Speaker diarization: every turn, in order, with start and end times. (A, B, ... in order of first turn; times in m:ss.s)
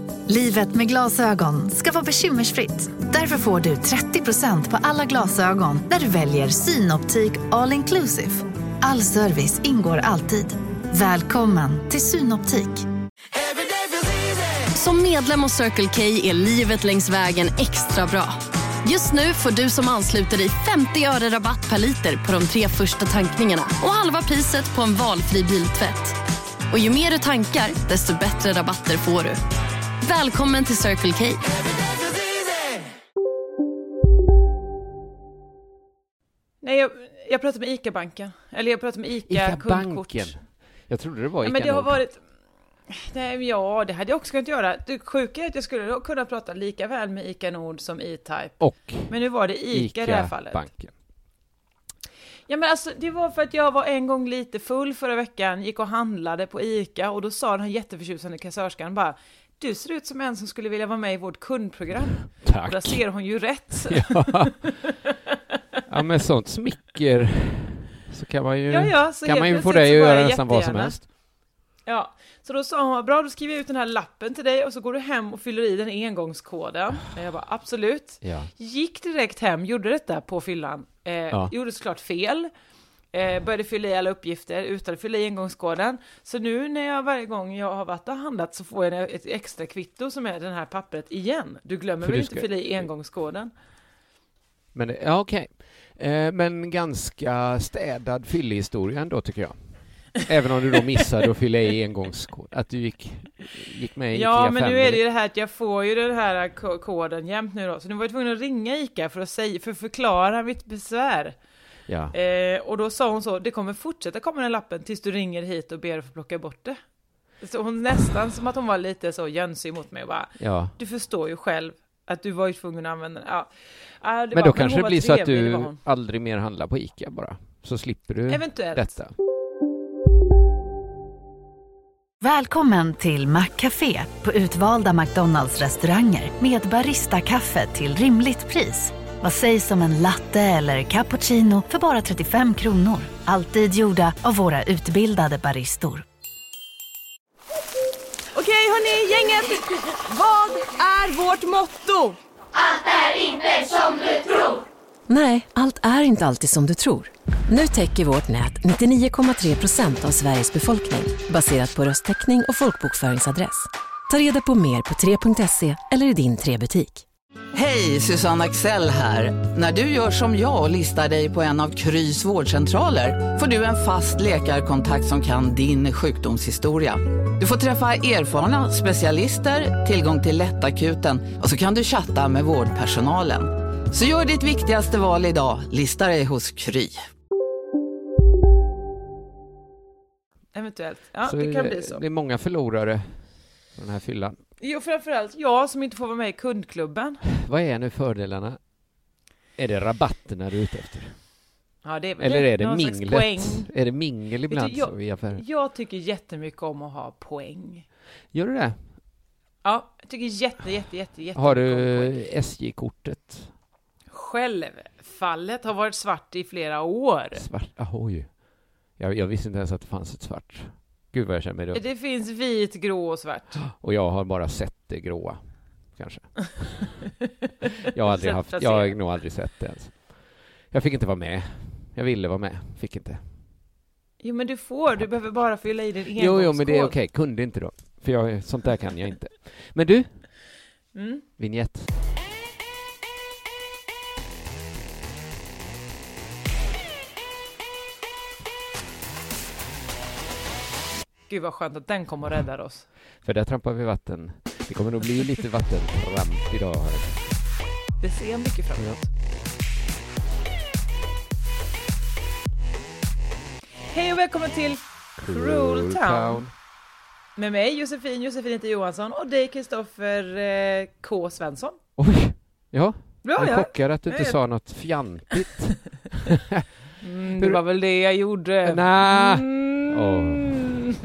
0:00.3-0:12.8 A
0:14.8-0:18.3 B
0:18.8-0:26.1 B
0:26.7-0:29.4 B
0:30.0-0:31.4 B
0:36.6-0:40.4 C
0:39.3-0:42.0 D
0:41.4-0:42.2 C
0:42.9-0:50.7 C
0:48.6-0:50.9 D
0:52.5-1:04.9 C
1:02.4-1:03.0 D
1:03.8-1:04.6 D
1:05.9-1:11.0 D
1:08.7-1:11.1 C
1:11.9-1:22.5 C
1:18.2-1:18.5 D
1:23.1-1:33.5 C
1:32.0-1:32.9 D
1:34.7-1:45.0 D
1:44.1-1:51.4 C
1:51.9-1:52.2 D
1:52.1-1:56.8 C
1:57.4-2:03.5 C
2:00.4-2:00.7 D
2:04.0-2:05.8 C
2:04.3-2:09.1 D
2:08.3-2:08.9 C
2:12.2-2:26.0 A
2:28.4-2:32.2 C
2:35.1-2:47.0 E
2:47.5-3:07.0 F
3:10.5-3:12.0 C
3:11.2-3:14.4 D
3:14.6-3:17.2 C
3:17.3-3:18.6 D
3:19.6-3:21.2 D
3:21.8-3:23.7 C
3:22.2-3:25.4 D
3:24.5-3:27.9 C
3:28.3-3:29.0 D
3:29.6-3:32.2 C
3:31.4-3:33.5 D
3:34.1-3:37.5 C
3:37.4-3:41.8 D
3:41.7-3:43.6 C
3:43.6-3:47.1 D
3:47.9-3:53.2 D
3:48.0-3:49.0 C
3:54.2-3:57.0 C
3:56.2-4:00.3 D
4:01.0-4:01.2 C
4:01.4-4:01.9 D
4:11.3-4:12.9 C
4:13.2-4:17.4 D
4:18.0-4:19.1 C
4:23.9-4:26.5 C
4:25.2-4:26.5 D
4:27.4-4:31.8 C
4:32.0-4:36.7 D
4:33.2-4:34.4 C
4:37.0-4:40.8 C
4:38.6-4:40.9 D